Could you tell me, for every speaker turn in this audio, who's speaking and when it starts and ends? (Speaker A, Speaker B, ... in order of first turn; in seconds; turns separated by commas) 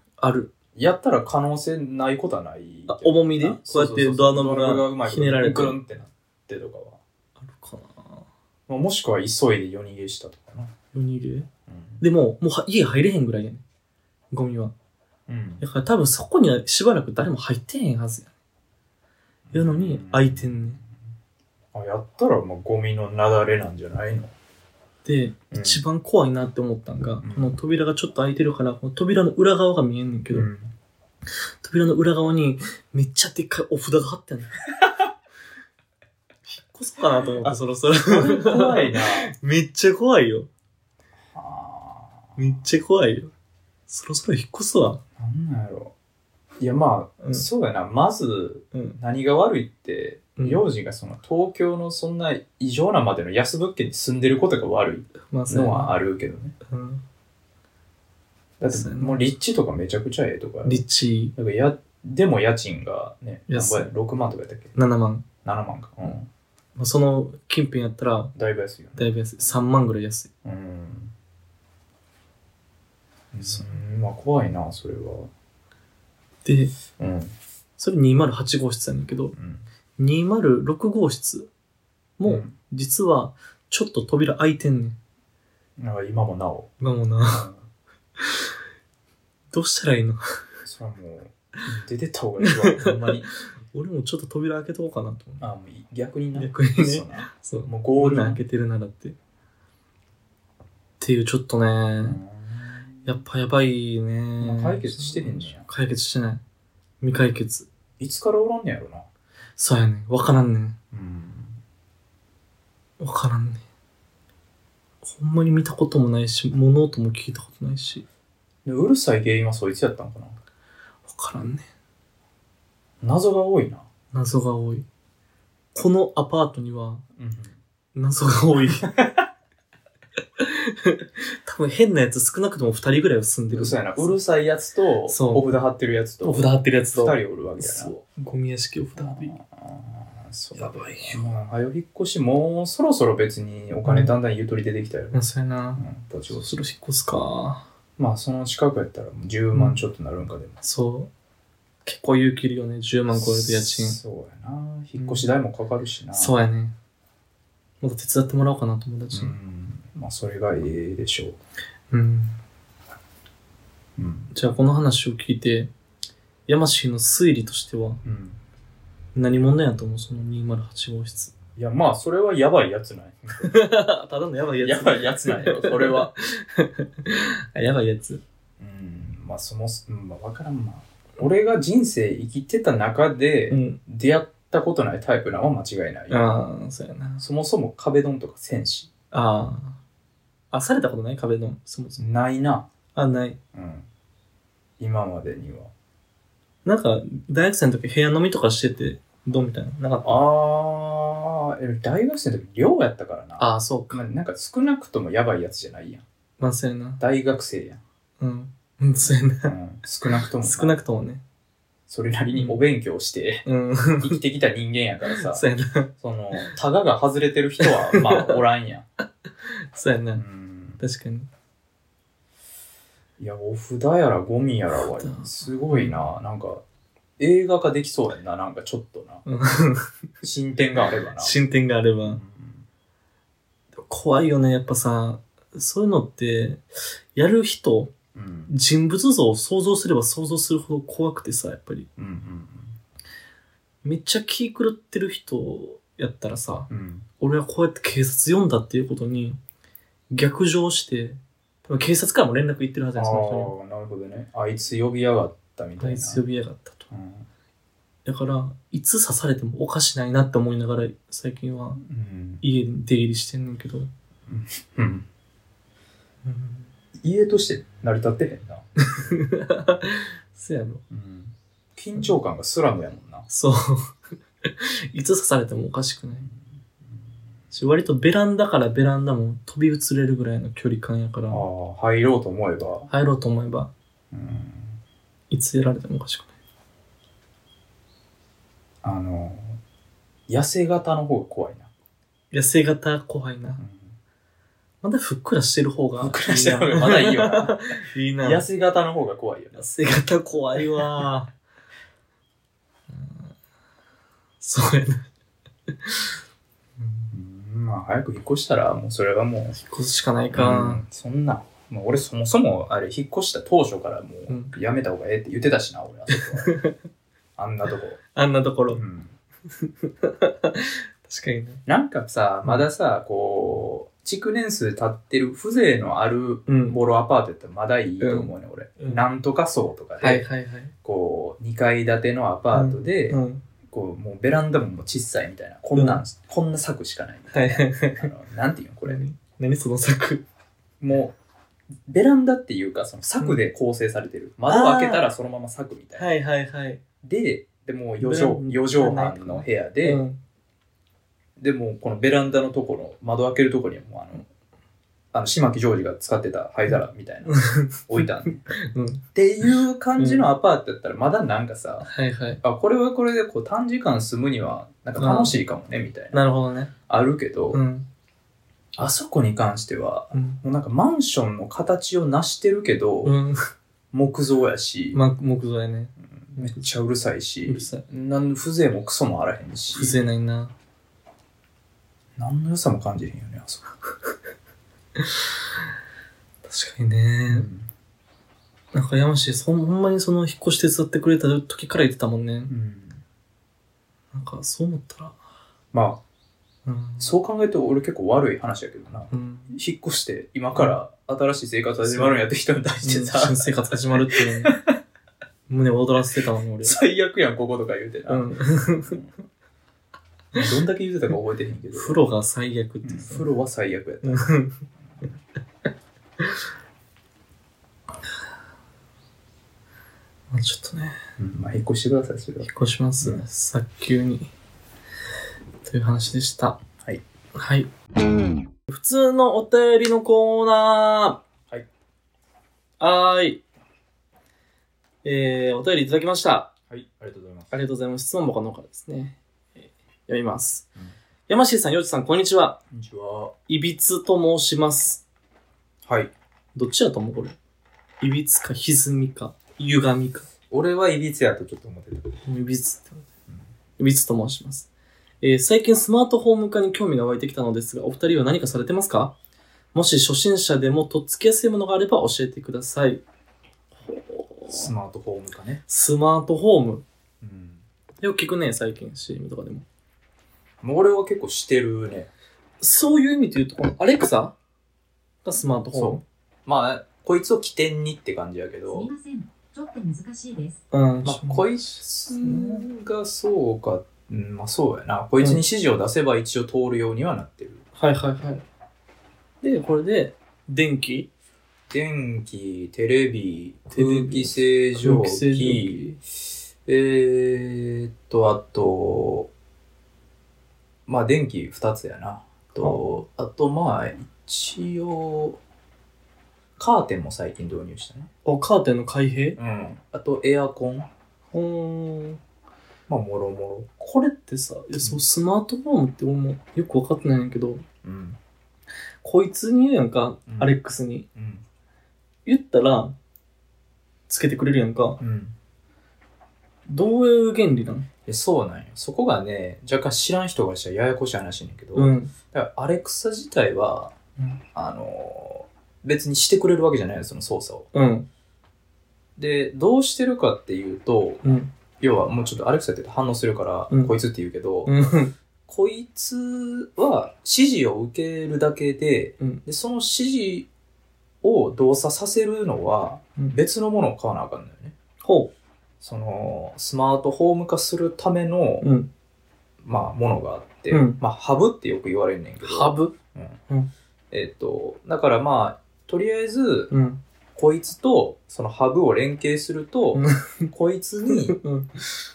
Speaker A: 0.2-0.5, Speaker B: 0.8-7.0, Speaker A: 2.9-5.8, Speaker A: 7.4-8.3, Speaker B: 8.7-10.7, Speaker A: 10.9-11.5, Speaker B: 11.7-12.0, Speaker A: 12.0-13.6, Speaker A: 14.3-14.7, Speaker B: 15.3-15.6, Speaker A: 15.6-18.3, Speaker B: 19.5-20.9, Speaker A: 19.5-20.8, Speaker B: 21.7-24.3, Speaker A: 25.1-30.5, Speaker B: 25.5-25.8, Speaker B: 27.2-27.5, Speaker B: 30.3-30.7, Speaker A: 31.6-34.6, Speaker A: 36.5-40.5, Speaker B: 37.4-39.3, Speaker B: 41.3-42.4, Speaker A: 42.4-43.3, Speaker A: 43.9-45.0, Speaker B: 45.2-45.9, Speaker B: 46.6-56.5, Speaker A: 47.2-47.5, Speaker A: 48.7-49.0, Speaker A: 50.4-50.6, Speaker A: 55.3-55.9, Speaker A: 56.7-57.0, Speaker B: 58.6-60.8, Speaker A: 58.7-59.2, Speaker A: 60.7-61.3, Speaker B: 61.4-64.8, Speaker A: 63.5-63.9, Speaker A: 64.8-65.2, Speaker B: 65.4-66.3, Speaker A: 66.8-68.3, Speaker B: 68.3-69.1, Speaker A: 69.0-70.3, Speaker B: 70.4-71.1, Speaker B: 73.3-75.3, Speaker A: 76.5-76.8, Speaker B: 77.0-77.3, Speaker A: 77.8-79.3, Speaker B: 79.3-79.7, Speaker A: 80.0-81.5, Speaker A: 82.2-85.0, Speaker B: 82.2-82.5, Speaker B: 85.8-86.7, Speaker A: 86.8-87.5, Speaker B: 87.2-87.7, Speaker A: 88.2-88.5, Speaker A: 89.5-90.4, Speaker B: 90.6-93.3, Speaker A: 92.4-93.1, Speaker A: 93.7-95.4, Speaker B: 95.4-98.4, Speaker A: 96.3-99.2, Speaker A: 101.0-102.2, Speaker B: 102.0-103.1, Speaker A: 103.0-106.4, Speaker B: 104.4-105.7, Speaker A: 107.0-107.7, Speaker B: 108.0-109.1, Speaker A: 109.6-110.8, Speaker B: 110.9-111.6, Speaker A: 113.0-113.6, Speaker A: 115.0-118.0, Speaker B: 118.7-120.4, Speaker A: 121.1-121.7, Speaker B: 123.0-123.9, Speaker A: 124.1-124.8, Speaker A: 125.8-127.0, Speaker B: 127.2-127.5, Speaker A: 128.0-129.0, Speaker A: 130.4-134.1, Speaker B: 133.5-137.9, Speaker A: 135.1-135.5, Speaker A: 136.2-139.3, Speaker B: 139.0-145.2, Speaker A: 140.6-141.2, Speaker A: 143.8-144.1, Speaker A: 145.1-147.7, Speaker B: 145.8-146.6, Speaker B: 148.0-150.6, Speaker A: 150.6-151.1, Speaker A: 151.8-154.0, Speaker B: 153.1-156.3, Speaker A: 155.0-155.3, Speaker A: 156.1-156.8, Speaker A: 157.8-159.3, Speaker B: 159.1-161.4, Speaker A: 161.9-162.4, Speaker B: 164.0-164.3, Speaker A: 164.3-165.7, Speaker A: 166.5-168.0, Speaker B: 168.0-168.4, Speaker A: 169.2-171.3, Speaker B: 171.6-173.6, Speaker A: 173.4-178.2, Speaker B: 174.6-176.1, Speaker B: 178.6-186.4, Speaker A: 183.5-183.8, Speaker A: 186.1-187.2, Speaker B: 187.2-188.9, Speaker A: 189.1-189.8, Speaker A: 190.5-192.0, Speaker B: 192.0-192.7, Speaker A: 192.9-193.4, Speaker B: 193.5-193.9, Speaker B: 194.8-195.7, Speaker A: 196.7-200.2, Speaker B: 200.1-206.0, Speaker A: 203.4-204.0, Speaker A: 206.4-207.0, Speaker B: 207.0-207.8, Speaker A: 208.2-209.5, Speaker B: 209.5-210.7, Speaker A: 210.4-211.2, Speaker B: 211.9-213.4, Speaker A: 212.3-212.6, Speaker A: 213.5-214.2, Speaker B: 214.0-215.5, Speaker A: 215.1-216.5, Speaker B: 216.0-218.8, Speaker A: 217.6-218.4, Speaker A: 219.4-220.2, Speaker B: 220.2-220.8, Speaker A: 220.8-221.3, Speaker B: 223.2-226.6, Speaker A: 224.8-226.1, Speaker B: 227.2-229.2, Speaker A: 229.3-229.9, Speaker B: 230.2-231.3, Speaker A: 231.2-232.2, Speaker B: 232.0-232.7, Speaker A: 233.8-236.6, Speaker A: 237.2-237.9, Speaker B: 238.1-238.5, Speaker A: 238.5-241.9, Speaker B: 242.0-242.8, Speaker A: 243.8-246.7, Speaker B: 246.7-247.1, Speaker A: 247.2-249.4, Speaker A: 250.1-253.5, Speaker B: 252.9-256.2, Speaker A: 255.8-256.9, Speaker B: 256.9-257.3, Speaker A: 258.1-261.8, Speaker B: 261.8-262.4, Speaker A: 262.4-263.9, Speaker B: 264.3-265.1, Speaker A: 266.2-266.7, Speaker B: 267.0-268.6, Speaker A: 268.8-270.8, Speaker B: 270.9-273.3, Speaker A: 273.3-276.3, Speaker A: 277.5-281.5, Speaker B: 281.3-282.9, Speaker A: 282.9-283.7, Speaker B: 284.1-284.8, Speaker A: 285.3-286.3, Speaker B: 288.8-289.6, Speaker B: 290.3-291.7, Speaker A: 292.3-293.6, Speaker B: 293.6-293.9, Speaker A: 294.8-298.4, Speaker B: 296.0-297.6, Speaker B: 298.2-299.7, Speaker A: 299.6-301.3, Speaker A: 302.9-303.3, Speaker A: 304.4-305.1, Speaker A: 305.7-306.1, Speaker A: 306.8-307.1, Speaker B: 307.1-309.6, Speaker A: 309.5-310.8, Speaker B: 310.3-316.5, Speaker A: 316.1-316.8, Speaker B: 317.4-318.0, Speaker A: 318.1-318.8, Speaker B: 318.7-319.1, Speaker A: 319.6-321.6, Speaker B: 321.7-330.3, Speaker A: 326.5-326.8, Speaker A: 328.0-329.1, Speaker A: 330.0-330.7, Speaker B: 330.8-339.0, Speaker A: 332.5-333.4, Speaker A: 335.8-336.0, Speaker A: 337.3-338.1, Speaker A: 338.9-340.2, Speaker B: 340.8-341.1, Speaker B: 341.9-346.1, Speaker A: 344.5-345.1, Speaker A: 346.0-346.8, Speaker B: 347.0-350.0, Speaker A: 348.0-350.2, Speaker B: 351.4-354.3, Speaker B: 355.1-358.4, Speaker A: 357.3-359.0, Speaker B: 359.1-361.9, Speaker A: 360.0-360.3, Speaker A: 361.8-362.4, Speaker B: 362.4-366.2, Speaker A: 365.0-365.4, Speaker A: 366.1-366.7, Speaker B: 366.9-367.6, Speaker A: 367.5-367.9, Speaker B: 368.8-373.1, Speaker A: 370.1-370.4, Speaker A: 373.0-373.5, Speaker B: 373.9-375.0, Speaker A: 374.9-376.6, Speaker B: 376.2-380.0, Speaker A: 377.5-377.8, Speaker A: 379.7-380.5, Speaker B: 382.2-384.1, Speaker A: 385.0-385.3, Speaker A: 386.4-387.5, Speaker B: 387.3-387.7, Speaker A: 388.7-392.5, Speaker B: 392.5-393.0, Speaker A: 394.1-395.2, Speaker B: 395.7-396.0, Speaker A: 396.6-397.1, Speaker B: 397.0-404.8, Speaker A: 399.1-399.5, Speaker A: 401.8-402.2, Speaker A: 402.8-404.6, Speaker A: 405.5-406.8, Speaker B: 406.6-408.3, Speaker A: 408.1-409.0, Speaker B: 410.3-412.0, Speaker A: 411.7-413.2, Speaker B: 412.8-414.3, Speaker A: 414.0-414.6, Speaker A: 420.3-421.0, Speaker B: 421.2-422.5, Speaker A: 422.4-424.3, Speaker A: 425.6-426.6, Speaker A: 427.4-427.7, Speaker A: 428.7-431.2, Speaker A: 432.8-433.4, Speaker A: 435.0-436.5, Speaker B: 436.7-437.5, Speaker A: 437.5-440.7, Speaker A: 441.3-442.6, Speaker B: 442.7-443.3, Speaker A: 443.5-445.0, Speaker B: 445.9-446.1, Speaker A: 446.6-447.4, Speaker A: 448.0-450.3, Speaker B: 450.5-452.2, Speaker A: 452.2-453.1, Speaker A: 453.8-454.7, Speaker A: 455.2-459.1, Speaker A: 459.7-463.0, Speaker A: 463.8-464.7, Speaker B: 464.5-465.6, Speaker A: 465.7-466.8, Speaker B: 467.2-467.6, Speaker A: 468.0-469.6, Speaker B: 470.6-472.1, Speaker A: 472.6-474.4, Speaker A: 475.2-476.0, Speaker B: 475.7-478.9, Speaker C: 478.7-480.6, Speaker A: 480.7-481.5, Speaker B: 481.1-487.6, Speaker A: 482.1-482.7, Speaker A: 487.8-488.4, Speaker A: 489.4-491.1, Speaker B: 491.7-495.9, Speaker A: 493.7-496.0, Speaker B: 496.6-499.3, Speaker B: 500.9-505.4, Speaker B: 506.6-508.1, Speaker A: 508.2-509.4, Speaker B: 509.4-510.9, Speaker A: 511.3-512.2, Speaker B: 512.9-513.7, Speaker A: 513.8-517.6, Speaker B: 517.8-518.2, Speaker A: 519.0-521.1, Speaker B: 520.3-520.6, Speaker B: 521.1-521.4, Speaker A: 522.3-523.0, Speaker A: 524.1-525.0, Speaker B: 525.0-525.3, Speaker A: 526.7-527.9, Speaker B: 528.1-533.9, Speaker A: 531.8-532.1, Speaker B: 534.5-537.7, Speaker A: 537.7-538.1, Speaker B: 539.2-541.2, Speaker A: 541.2-541.5, Speaker B: 541.8-544.7, Speaker A: 544.6-545.1, Speaker B: 545.5-550.5, Speaker B: 551.2-554.8, Speaker A: 555.0-555.3, Speaker B: 555.8-558.7, Speaker A: 558.6-558.9, Speaker B: 559.6-563.4, Speaker A: 560.7-561.0, Speaker A: 562.4-562.9, Speaker B: 564.1-566.7, Speaker A: 566.7-567.0, Speaker B: 567.4-571.4, Speaker A: 569.9-570.5, Speaker A: 571.1-571.9